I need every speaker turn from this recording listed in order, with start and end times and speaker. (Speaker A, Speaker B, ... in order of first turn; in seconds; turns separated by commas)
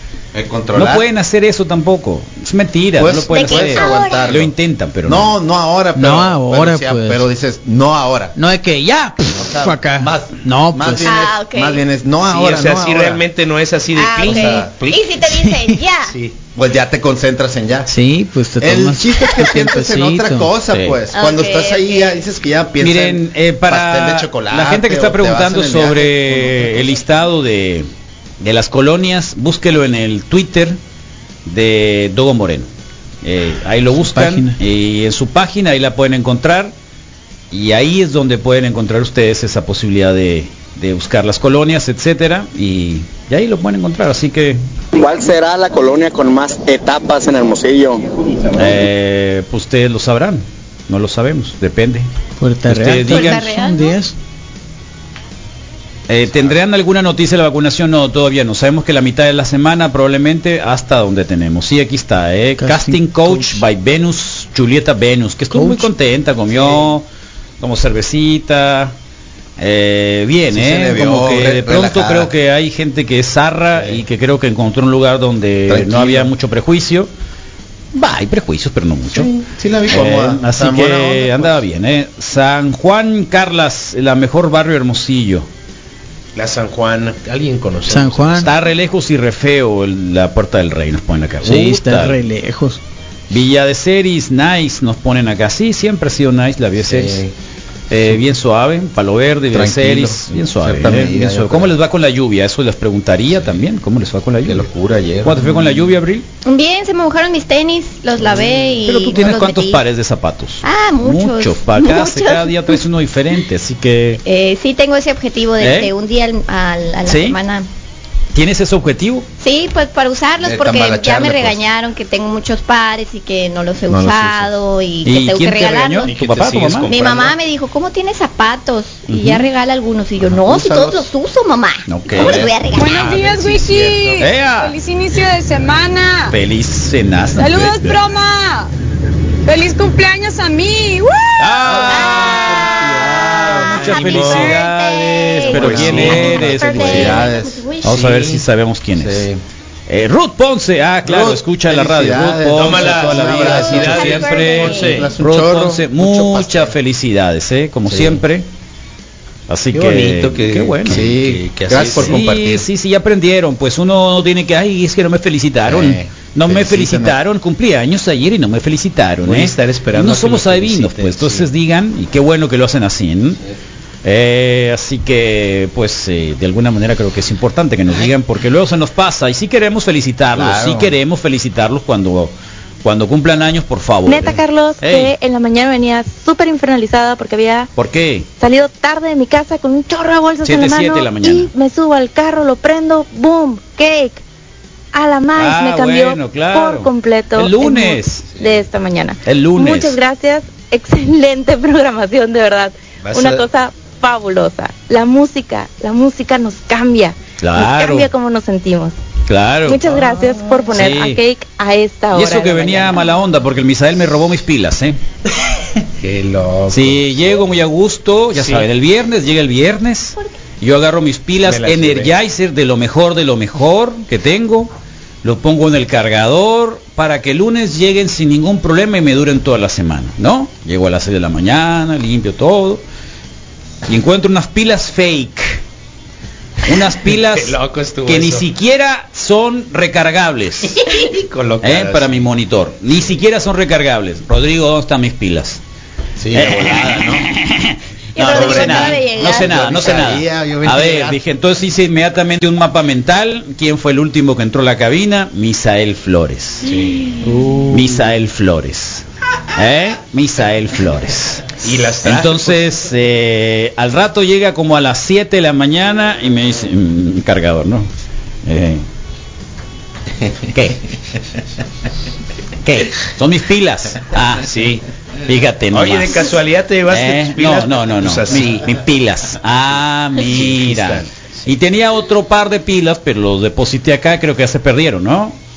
Speaker A: 0.3-1.1, Speaker B: 0.7-5.3, Speaker A: 3.0-4.5, Speaker C: 3.3-4.3, Speaker A: 5.0-8.3, Speaker D: 6.0-7.2, Speaker D: 8.3-11.1, Speaker A: 9.3-13.2, Speaker C: 11.0-11.8, Speaker E: 12.3-15.2, Speaker C: 13.9-16.2, Speaker A: 14.2-14.7, Speaker D: 15.3-15.8, Speaker E: 16.1-16.3, Speaker A: 16.5-17.9, Speaker D: 17.9-20.5, Speaker A: 18.6-27.0, Speaker B: 20.7-21.0, Speaker C: 21.1-22.2, Speaker B: 22.8-27.9, Speaker B: 28.4-30.8, Speaker B: 31.4-32.7, Speaker B: 33.2-36.7, Speaker D: 34.0-34.6, Speaker B: 37.5-44.6, Speaker F: 44.9-48.8, Speaker B: 48.5-52.1, Speaker D: 52.4-54.1, Speaker B: 52.7-53.5, Speaker C: 53.1-54.0, Speaker B: 56.1-67.0, Speaker D: 62.6-63.6, Speaker D: 65.5-65.9, Speaker B: 67.6-68.9, Speaker B: 69.6-77.1, Speaker A: 70.5-72.3, Speaker A: 73.7-74.0, Speaker A: 75.7-76.3, Speaker B: 77.9-79.3, Speaker A: 79.1-81.6, Speaker B: 79.9-85.5, Speaker E: 86.3-88.5, Speaker D: 87.9-88.5, Speaker B: 88.4-92.2, Speaker D: 91.4-92.8, Speaker B: 93.3-97.2, Speaker A: 96.8-97.3, Speaker B: 97.9-104.7, Speaker A: 99.5-101.7, Speaker D: 99.7-100.1, Speaker A: 104.4-106.0, Speaker B: 105.2-106.2, Speaker C: 106.4-109.8, Speaker B: 108.8-114.2, Speaker C: 110.6-112.8, Speaker C: 114.2-117.7, Speaker B: 115.6-115.9, Speaker B: 117.0-117.4, Speaker B: 118.3-119.2, Speaker C: 119.4-126.2, Speaker A: 120.4-121.6, Speaker A: 123.9-124.5, Speaker B: 125.0-126.9, Speaker E: 126.0-127.3, Speaker C: 126.8-133.0, Speaker B: 129.1-129.5, Speaker A: 130.2-131.1, Speaker B: 131.9-132.5, Speaker A: 132.1-134.2, Speaker G: 132.7-136.3, Speaker B: 134.2-134.8, Speaker B: 136.3-138.0, Speaker G: 137.3-138.7, Speaker G: 139.4-142.0, Speaker B: 141.4-147.3, Speaker A: 141.7-142.2, Speaker C: 141.9-142.3, Speaker E: 142.3-144.6, Speaker C: 143.6-148.3, Speaker E: 145.5-146.8, Speaker A: 145.6-148.1, Speaker B: 147.8-149.3, Speaker A: 148.9-149.4, Speaker B: 149.9-158.4, Speaker A: 151.0-156.7, Speaker E: 152.5-155.1, Speaker C: 153.7-155.1, Speaker A: 157.8-158.2, Speaker B: 159.5-161.1, Speaker E: 159.7-162.2, Speaker A: 160.8-162.7, Speaker B: 161.8-173.4, Speaker A: 165.7-167.2, Speaker E: 169.2-171.5, Speaker B: 174.0-185.1, Speaker A: 180.3-181.0, Speaker H: 184.1-187.7, Speaker B: 187.8-188.3, Speaker H: 188.4-194.2, Speaker B: 190.4-191.5, Speaker H: 194.9-208.9, Speaker B: 195.3-198.3, Speaker B: 199.2-199.9, Speaker E: 203.0-203.4, Speaker B: 207.4-208.1, Speaker B: 209.3-210.0, Speaker H: 209.7-213.0, Speaker B: 210.7-211.2, Speaker B: 212.1-215.0, Speaker E: 216.0-217.0, Speaker B: 216.7-224.7, Speaker E: 218.3-218.7, Speaker E: 221.4-222.1, Speaker B: 225.2-232.8, Speaker B: 233.8-235.6, Speaker B: 236.6-240.8, Speaker E: 237.1-238.5, Speaker E: 240.8-242.1, Speaker B: 241.6-245.6, Speaker A: 246.2-247.3, Speaker B: 246.3-256.7, Speaker C: 248.2-250.0, Speaker A: 248.2-251.2, Speaker E: 256.6-258.1, Speaker B: 257.7-267.9, Speaker E: 261.6-262.7, Speaker B: 268.4-268.8, Speaker A: 270.2-271.2, Speaker B: 272.6-274.5, Speaker E: 274.4-274.8, Speaker B: 275.2-276.4, Speaker E: 275.7-278.7, Speaker B: 276.9-285.4, Speaker E: 280.1-281.5